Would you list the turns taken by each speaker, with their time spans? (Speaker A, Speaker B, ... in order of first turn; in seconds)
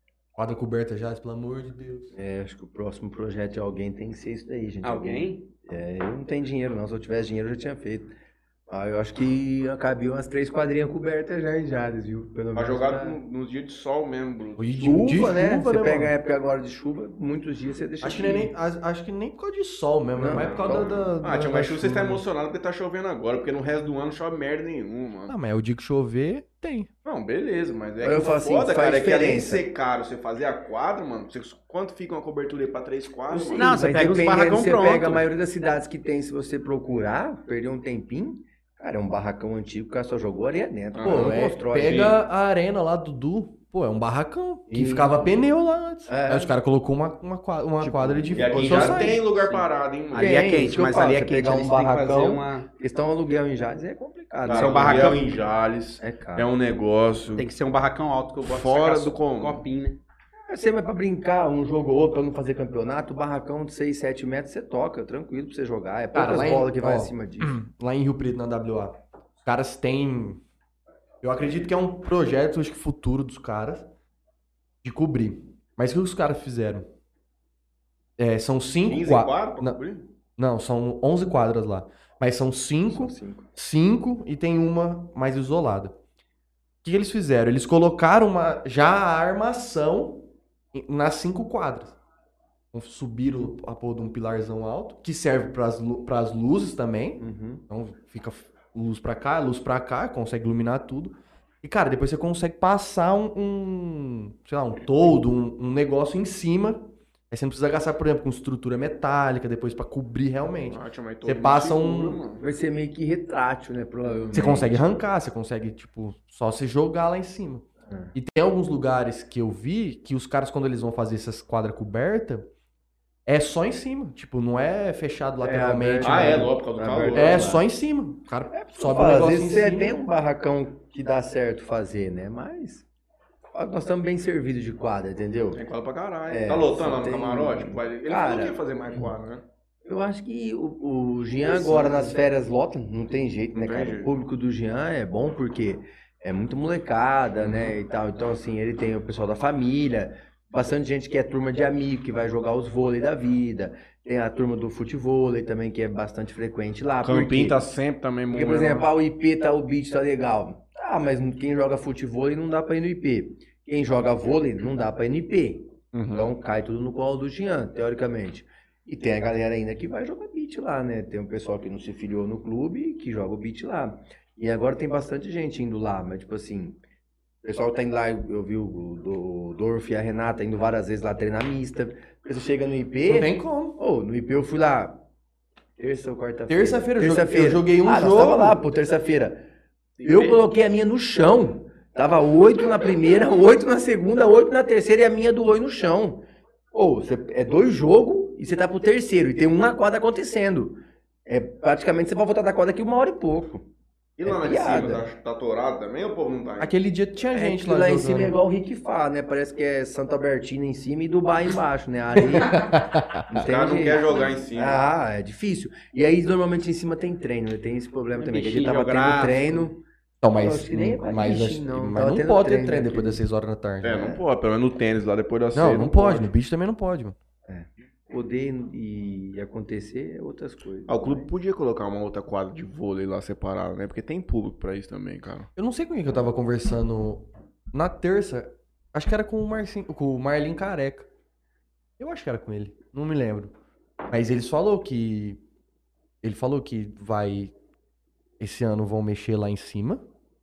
Speaker A: 0.3-2.1, 14.6-16.1, 18.0-22.2, 25.3-26.9, 41.0-49.2, 66.1-70.4, 71.2-73.9, 74.8-76.9, 78.2-79.8, 80.4-85.9, 86.8-92.0, 92.7-112.2, 114.3-122.5, 123.2-126.5, 127.1-130.0, 183.0-183.8, 186.5-188.6, 206.6-208.4, 212.3-213.2, 220.2-224.0, 225.5-227.2, 235.6-241.1, 242.0-243.5, 244.1-245.4, 246.2-247.5, 248.4-250.0
Speaker B: 2.1-8.1, 8.7-13.2, 14.8-18.5, 20.1-21.0, 28.0-29.6, 33.3-42.1, 44.7-45.3, 46.1-46.5, 47.8-48.8, 50.1-55.2, 56.0-56.5, 60.5-67.6, 82.9-83.5, 97.2-97.6, 112.4-114.8, 117.9-118.1, 125.4-127.6, 128.5-132.8, 133.5-135.6, 136.3-139.1, 139.8-157.6, 158.3-176.8, 177.4-185.0, 185.8-189.4, 190.0-203.6, 204.2-205.0, 207.3-212.8, 213.3-219.8, 220.3-223.2, 223.9-224.2, 227.4-231.3
Speaker C: 4.8-5.5, 33.5-35.2, 48.8-52.6, 54.4-55.2, 57.4-60.0, 190.0-190.3, 218.2-219.7
Speaker D: 12.5-14.7, 20.3-25.3, 27.0-33.7, 40.9-42.1, 48.3-50.4, 54.4-57.5, 58.4-59.6, 78.8-80.0, 110.6-112.4, 126.0-127.5, 135.5-139.4, 141.4-142.2, 143.5-144.1, 147.4-147.7, 157.0-158.9, 165.9-166.3, 204.2-206.7, 213.3-214.8, 223.8-226.3, 230.9-235.5